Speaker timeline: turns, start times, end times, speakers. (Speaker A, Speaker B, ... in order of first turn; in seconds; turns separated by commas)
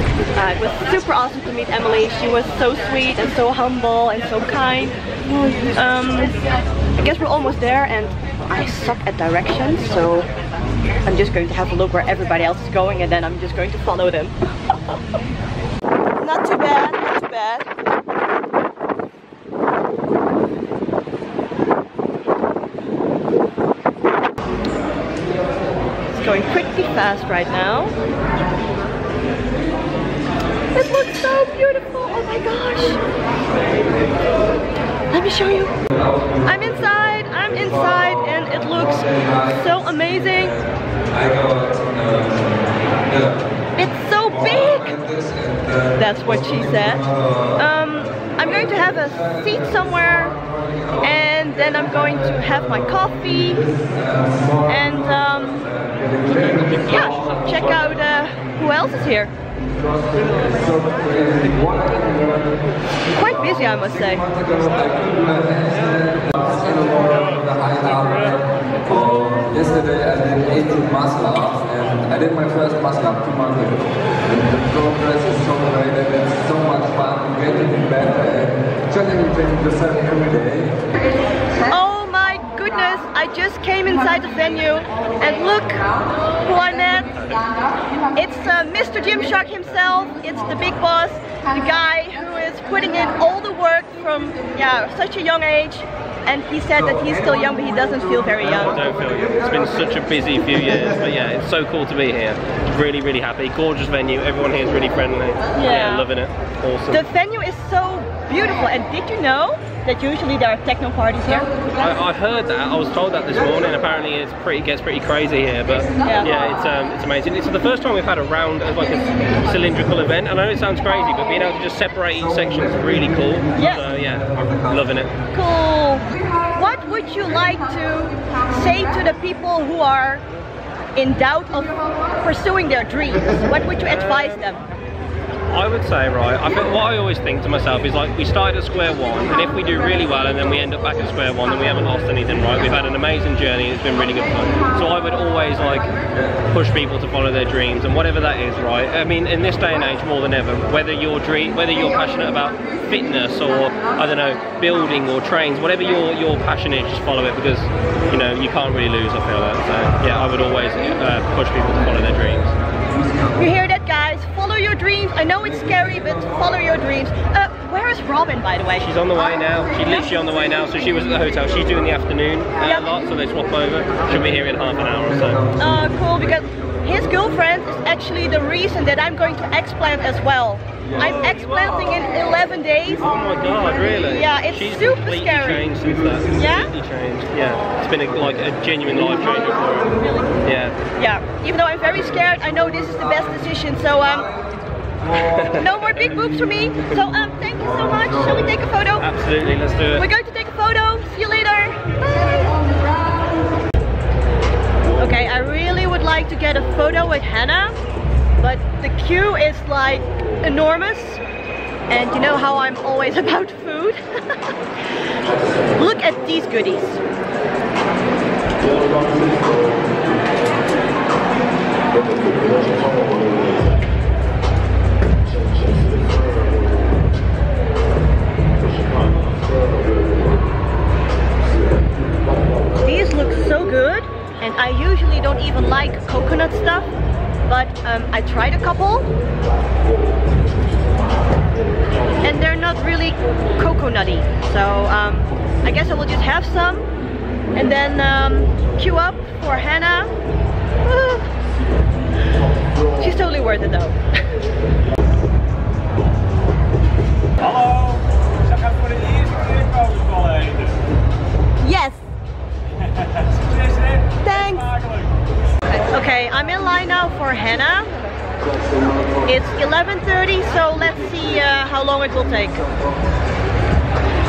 Speaker A: 0.3-6.3, Speaker A: 7.0-10.3, Speaker A: 11.1-14.3, Speaker A: 16.2-17.7, Speaker A: 26.1-27.9, Speaker A: 30.7-33.0, Speaker A: 35.1-35.7, Speaker B: 35.9-43.5, Speaker A: 36.4-40.5, Speaker A: 43.8-45.0, Speaker B: 44.2-58.1, Speaker A: 46.0-47.0, Speaker A: 47.6-50.4, Speaker A: 51.0-53.6, Speaker A: 54.7-55.7, Speaker A: 56.8-59.3, Speaker B: 59.6-80.8, Speaker A: 63.1-64.2, Speaker A: 81.7-85.9, Speaker A: 86.4-87.1, Speaker A: 88.2-98.8, Speaker C: 98.4-107.0, Speaker A: 105.5-106.0, Speaker A: 106.9-111.5, Speaker C: 111.8-125.1, Speaker B: 122.2-125.0, Speaker A: 123.5-123.8, Speaker A: 125.3-130.2, Speaker A: 130.9-134.6, Speaker C: 135.5-162.5, Speaker B: 162.9-163.4, Speaker A: 163.3-168.8, Speaker B: 165.6-166.5, Speaker C: 168.8-175.4, Speaker A: 172.6-172.9, Speaker B: 175.1-176.1, Speaker A: 175.6-183.1, Speaker B: 180.9-181.2, Speaker C: 183.0-189.9, Speaker A: 183.8-185.6, Speaker A: 186.3-186.7, Speaker C: 190.4-190.8, Speaker A: 191.0-194.3, Speaker B: 195.0-198.6, Speaker C: 195.3-195.6, Speaker A: 195.6-199.0, Speaker C: 199.0-200.0, Speaker A: 200.0-202.6, Speaker A: 205.0-207.8, Speaker A: 208.4-211.2, Speaker A: 211.9-214.0, Speaker A: 215.8-217.0, Speaker A: 232.8-236.9, Speaker A: 237.5-239.1, Speaker A: 242.2-246.9, Speaker A: 247.5-250.1, Speaker A: 250.8-251.3, Speaker A: 253.0-254.0, Speaker A: 261.6-262.0, Speaker A: 264.2-264.7, Speaker A: 265.9-267.9, Speaker A: 269.3-272.6